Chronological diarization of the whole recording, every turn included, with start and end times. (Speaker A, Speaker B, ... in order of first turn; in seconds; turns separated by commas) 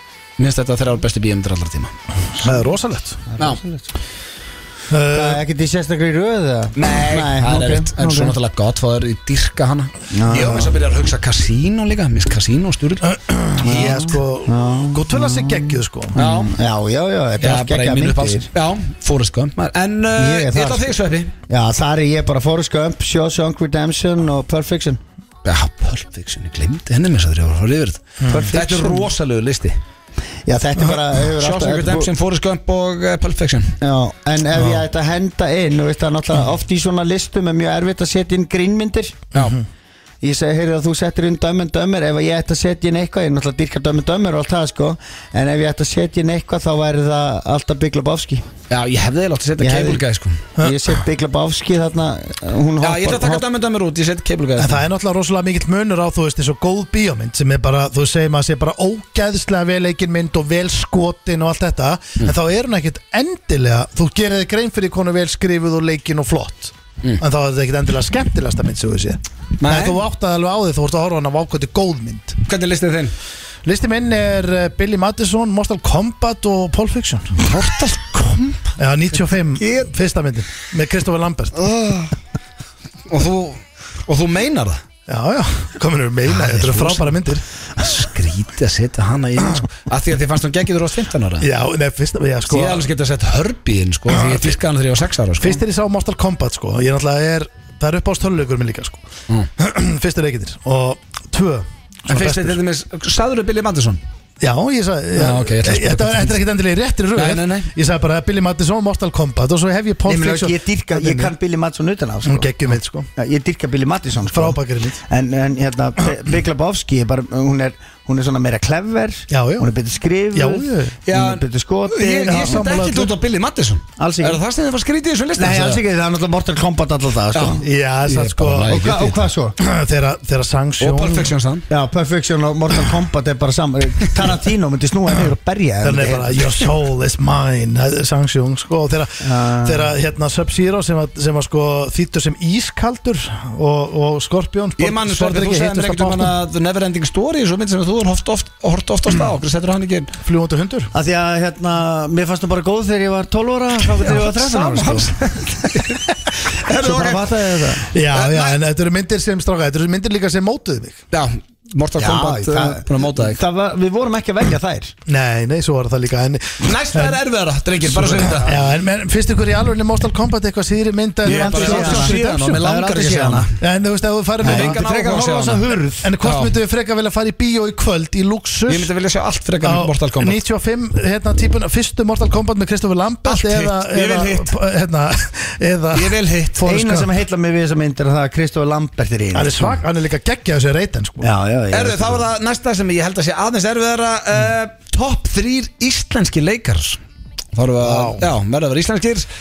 Speaker A: 0.4-1.9, Speaker B: 2.4-3.2, Speaker C: 3.3-3.9, Speaker B: 4.9-5.4, Speaker C: 5.1-8.3, Speaker A: 6.8-14.1, Speaker C: 10.1-10.8, Speaker B: 13.0-16.1, Speaker C: 13.6-18.5, Speaker A: 16.2-16.5, Speaker A: 17.4-21.3, Speaker C: 20.1-20.9, Speaker C: 21.5-25.0, Speaker A: 25.4-29.8, Speaker B: 28.2-28.5, Speaker C: 28.3-29.1, Speaker C: 30.5-32.1, Speaker A: 31.2-33.8, Speaker C: 33.8-39.2, Speaker B: 34.5-34.9, Speaker B: 39.3-39.6, Speaker C: 40.2-48.5, Speaker A: 48.7-50.5, Speaker C: 49.6-50.0, Speaker B: 50.6-50.8, Speaker C: 50.6-53.4, Speaker A: 52.8-54.8, Speaker B: 54.6-72.4, Speaker A: 69.6-70.0, Speaker A: 72.5-73.1, Speaker B: 73.7-77.4, Speaker A: 77.4-79.9, Speaker B: 78.8-81.7, Speaker A: 81.6-82.2, Speaker A: 83.1-84.8, Speaker B: 85.1-87.4, Speaker A: 86.3-87.3, Speaker A: 87.8-91.5, Speaker B: 91.4-92.9, Speaker A: 92.5-95.6, Speaker B: 94.1-94.5, Speaker B: 95.4-99.0, Speaker B: 99.6-102.6, Speaker A: 102.1-104.0, Speaker B: 104.4-111.3, Speaker A: 105.2-106.5, Speaker A: 107.2-107.7, Speaker C: 110.1-112.5, Speaker B: 112.2-113.1, Speaker C: 113.2-122.6, Speaker B: 114.2-115.0, Speaker B: 119.3-119.7, Speaker B: 120.3-121.0, Speaker A: 121.1-125.8, Speaker B: 122.3-123.1, Speaker C: 124.0-124.4, Speaker C: 125.4-127.6, Speaker A: 127.3-129.2, Speaker B: 127.6-128.8, Speaker C: 128.7-129.6, Speaker B: 129.6-131.3, Speaker A: 130.8-131.7, Speaker C: 131.7-136.4, Speaker B: 135.8-146.4, Speaker C: 139.2-139.9, Speaker A: 144.8-150.1, Speaker B: 150.2-150.9, Speaker C: 150.9-155.1, Speaker A: 154.0-157.4, Speaker C: 156.7-157.9, Speaker B: 157.9-161.0, Speaker A: 158.1-158.6, Speaker A: 161.1-163.4, Speaker C: 162.0-164.9, Speaker B: 165.1-167.2, Speaker A: 166.6-168.6, Speaker B: 167.9-172.6, Speaker A: 171.2-173.6, Speaker C: 171.3-173.5, Speaker B: 173.6-174.9, Speaker C: 174.4-176.1, Speaker A: 174.4-176.6, Speaker B: 176.0-178.9, Speaker A: 178.7-180.4, Speaker B: 179.6-187.1, Speaker A: 183.2-184.5, Speaker A: 185.9-186.7, Speaker C: 186.6-189.8, Speaker B: 189.3-191.3, Speaker C: 191.2-192.2, Speaker A: 191.7-197.0, Speaker A: 197.5-199.3, Speaker B: 197.8-198.3